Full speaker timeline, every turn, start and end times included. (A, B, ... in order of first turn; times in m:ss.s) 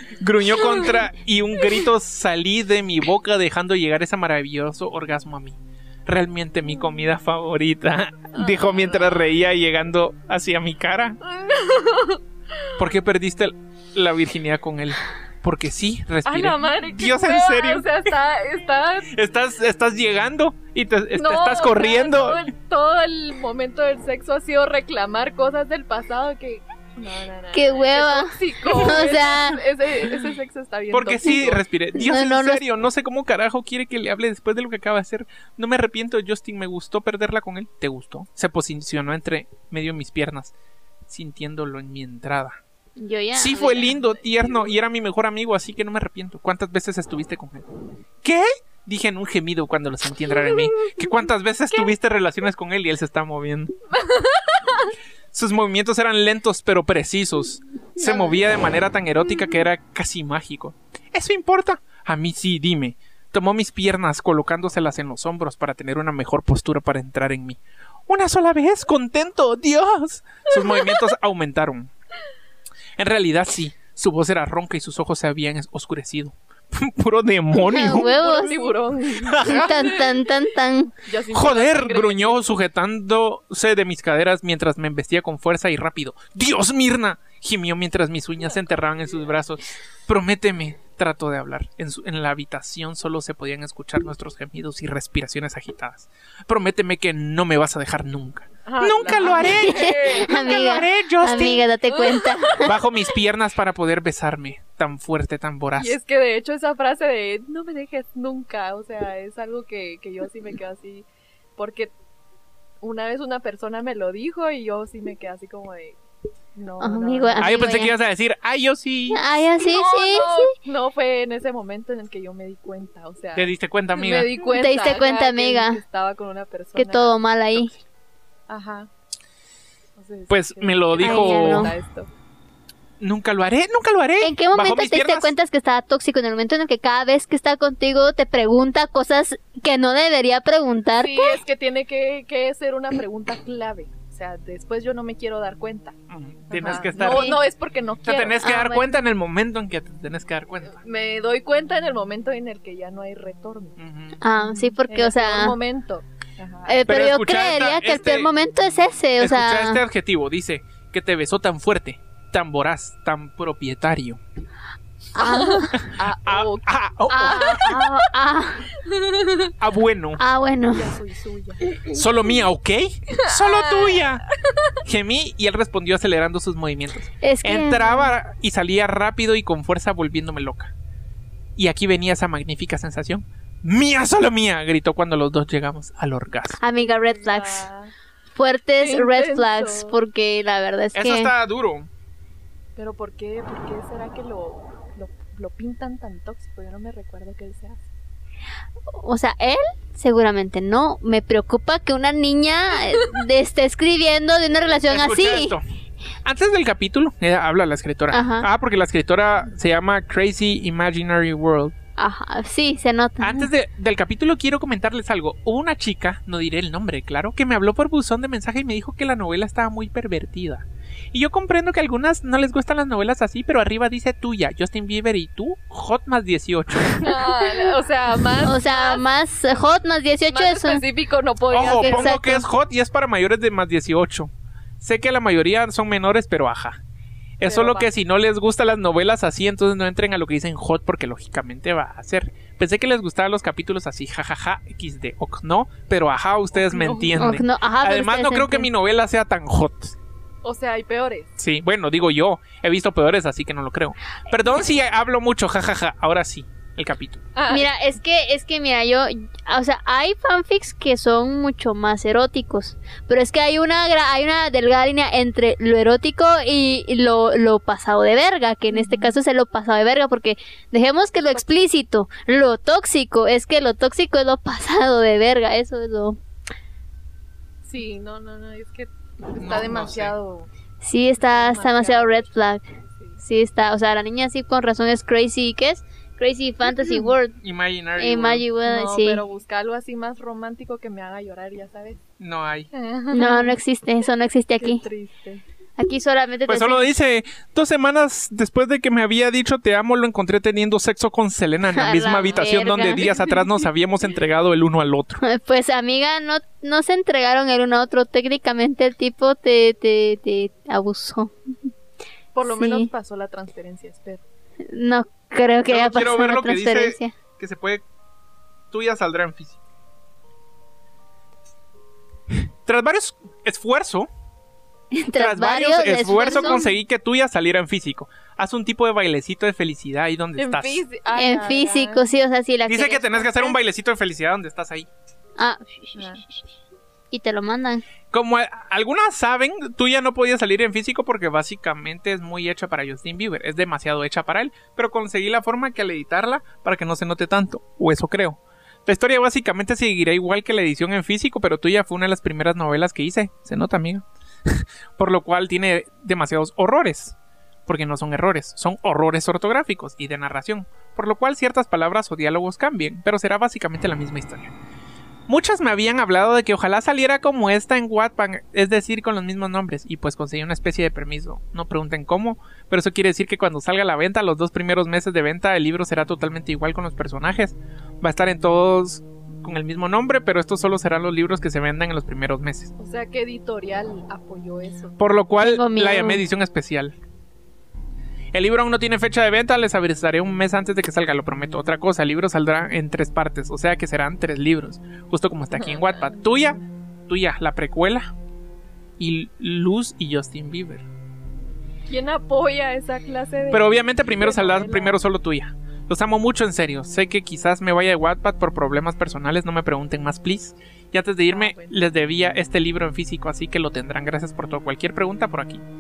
0:00.2-0:11.2 A
0:00.6-0:01.0 B
0:08.3-0:09.2 B
0:11.2-0:12.2 B
0:12.8-0:17.9 A
0:16.2-0:19.1 B
0:19.1-0:22.4 A
0:21.1-0:31.6 B
0:27.5-0:29.6 C
0:30.9-0:40.5 A
0:32.0-0:32.6 C
0:41.1-0:42.6 A
0:43.0-0:44.0 C
0:43.3-0:47.7 A
0:48.2-0:53.7 A
0:53.9-0:55.0 B
0:55.3-1:11.9 A
0:58.0-0:58.3 C
1:13.0-1:18.1 A
1:17.6-1:18.7 C
1:17.7-1:20.1 B
1:19.2-1:19.9 A
1:19.4-1:20.9 C
1:21.0-1:22.6 B
1:21.3-1:41.7 A
1:38.6-1:40.6 B
1:39.3-1:42.8 C
1:41.9-1:42.7 B
1:42.6-1:46.0 A
1:45.8-1:51.1 B
1:51.6-1:51.9 B
1:52.8-1:56.0 B
1:56.6-1:57.8 B
1:56.8-1:57.9 C
1:57.4-1:59.5 A
1:59.1-2:00.5 C
1:59.6-2:07.2 B
2:03.4-2:04.3 A
2:04.5-2:05.8 C
2:06.8-2:07.8 C
2:08.5-2:08.9 B
2:10.0-2:12.1 B
2:10.3-2:11.7 A
2:11.0-2:11.7 C
2:13.0-2:15.3 A
2:14.2-2:21.4 C
2:21.0-2:26.0 B
2:26.1-2:27.4 A
2:26.5-2:28.4 B
2:27.0-2:27.4 C
2:28.0-2:30.8 A
2:28.4-2:28.9 C
2:30.7-2:33.8 B
2:33.8-2:34.2 A
2:34.2-2:35.6 C
2:34.4-2:36.9 B
2:36.7-2:39.8 C
2:36.9-2:38.3 A
2:39.2-2:44.2 A
2:45.2-2:45.8 C
2:45.2-2:47.9 B
2:45.7-2:47.8 A
2:47.1-2:48.7 C
2:48.8-2:49.5 B
2:49.6-2:50.2 A
2:50.2-2:51.0 C
2:50.7-2:51.8 B
2:51.9-2:54.2 A
2:53.1-2:54.7 B
2:54.8-3:00.7 A
2:57.2-2:58.1 C
3:01.6-3:06.6 A
3:06.6-3:07.7 C
3:06.7-3:07.9 B
3:08.4-3:11.3 C
3:08.8-3:10.0 B
3:10.9-3:11.9 A
3:12.8-3:17.9 B
3:18.9-3:25.6 C
3:24.9-3:25.6 A
3:26.2-3:31.8 A
3:28.1-3:28.5 C
3:32.0-3:33.5 C
3:33.2-3:47.2 A
3:47.0-3:49.6 B
3:48.4-3:50.8 C
3:50.3-3:52.2 B
3:51.5-3:56.8 A
3:51.8-3:52.5 C
3:57.4-4:10.0 A
3:57.5-3:57.9 B
4:06.5-4:07.2 B
4:07.2-4:08.7 C
4:10.4-4:11.3 B
4:11.4-4:17.2 A
4:17.4-4:17.7 B
4:17.5-4:36.2 C
4:28.7-4:29.2 B
4:37.6-4:40.5 B
4:39.4-4:40.1 A
4:40.8-4:42.6 C
4:41.2-4:42.3 B
4:43.0-4:43.2 B
4:43.2-4:47.4 C
4:46.7-4:47.1 B
4:47.4-4:48.4 A
4:48.0-4:49.2 C
4:48.6-4:52.0 B
4:52.2-4:52.7 A
4:52.7-4:53.6 B
4:53.1-4:54.8 C
4:54.6-4:55.4 B
4:55.8-4:56.9 C
4:56.5-5:05.2 A
5:01.7-5:03.2 C
5:05.2-5:11.3 C
5:12.3-5:14.2 B
5:12.5-5:12.9 C
5:14.7-5:17.1 C
5:15.7-5:17.8 A
5:18.7-5:19.6 A
5:22.3-5:24.1 A
5:24.9-5:26.7 C
5:25.2-5:30.8 A
5:30.4-5:32.0 B
5:31.1-5:33.5 C
5:32.7-5:34.9 A
5:35.4-5:36.2 C
5:36.0-5:36.2 B
5:37.1-5:37.8 C
5:38.1-5:57.2 A
5:57.7-6:04.5 A
6:05.3-6:22.7 A
6:22.8-6:25.0 B
6:25.0-6:27.0 A
6:25.4-6:26.2 C
6:28.3-6:38.1 A
6:35.5-6:36.6 B
6:39.0-6:40.9 A
6:41.9-6:45.0 B
6:43.5-6:55.6 A
6:51.3-6:51.8 B